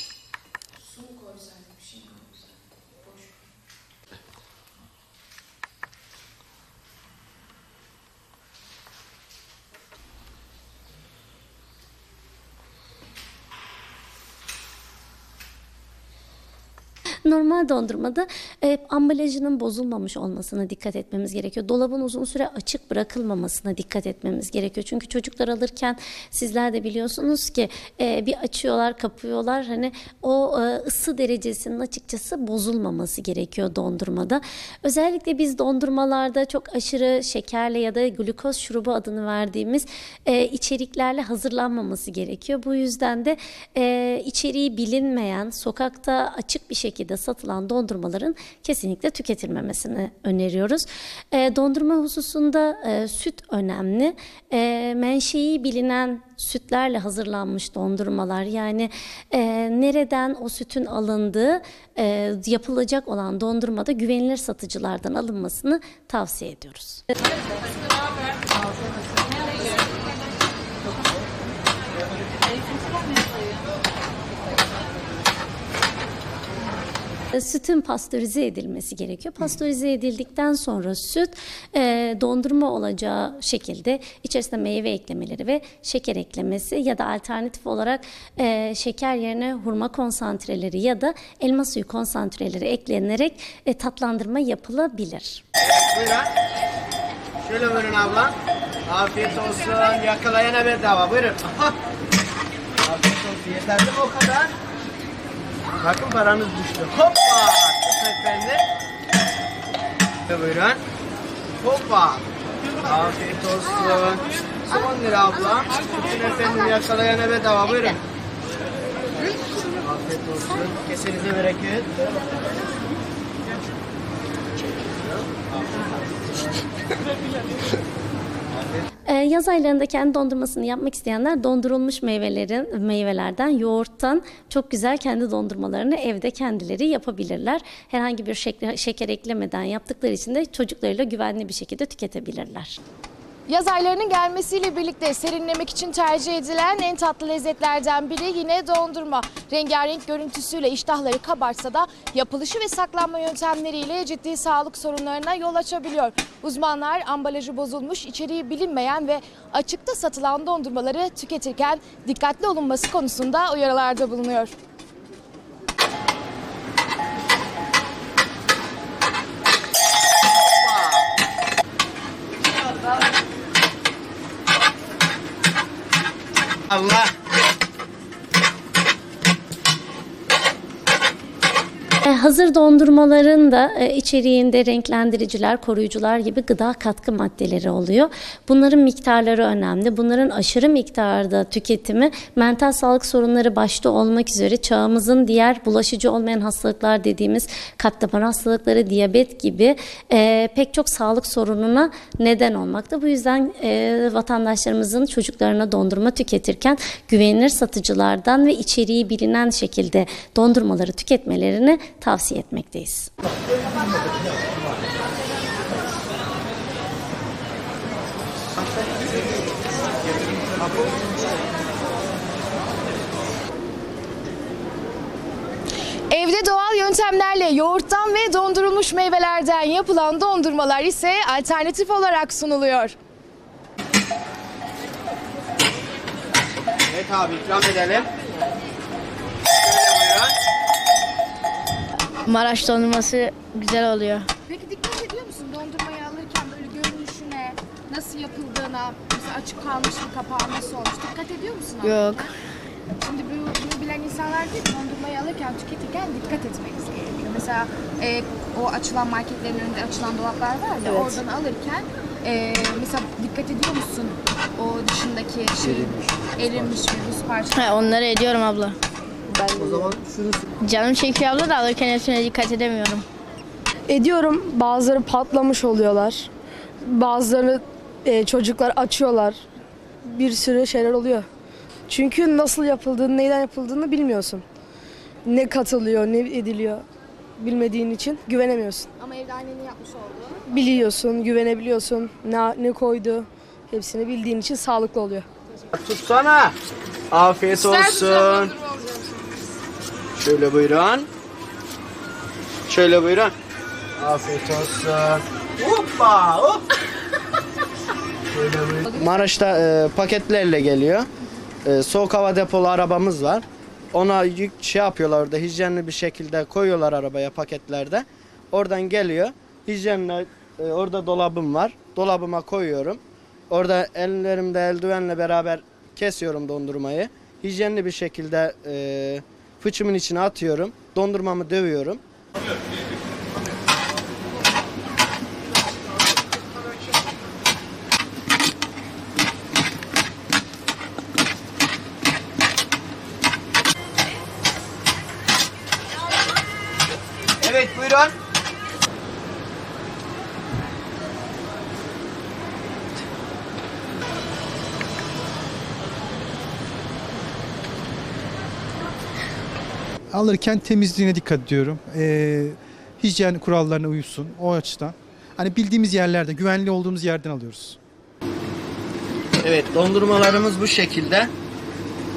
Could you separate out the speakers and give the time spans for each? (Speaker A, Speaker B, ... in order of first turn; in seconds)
Speaker A: 0.9-2.3, 143.5-164.5, 226.1-232.9, 244.5-252.3, 252.9-267.9, 289.0-290.4, 297.6-299.1
Speaker B: 17.2-67.0, 77.3-95.4, 129.1-142.8, 182.0-213.1
Speaker C: 95.6-96.3, 97.4-101.8, 102.8-104.5, 105.8-108.6, 110.3-110.8, 111.6-112.2, 112.8-118.0, 119.8-122.1, 170.4-171.0, 176.7-177.1, 236.9-238.1, 239.6-240.3, 265.7-266.4, 269.6-270.2, 295.7-296.6, 297.1-298.5, 300.1-301.1, 302.7-303.3, 304.0-306.6, 308.3-311.1, 311.6-332.0, 347.4-348.1, 369.4-371.3
Speaker D: 242.2-244.2, 251.8-252.2, 260.9-261.1, 267.6-268.8, 270.6-273.0
Speaker E: 269.3-269.9, 273.9-276.3, 276.8-279.4, 280.1-281.3, 281.9-284.4, 285.2-286.8, 287.4-288.9, 290.5-295.2
Speaker F: 360.1-367.8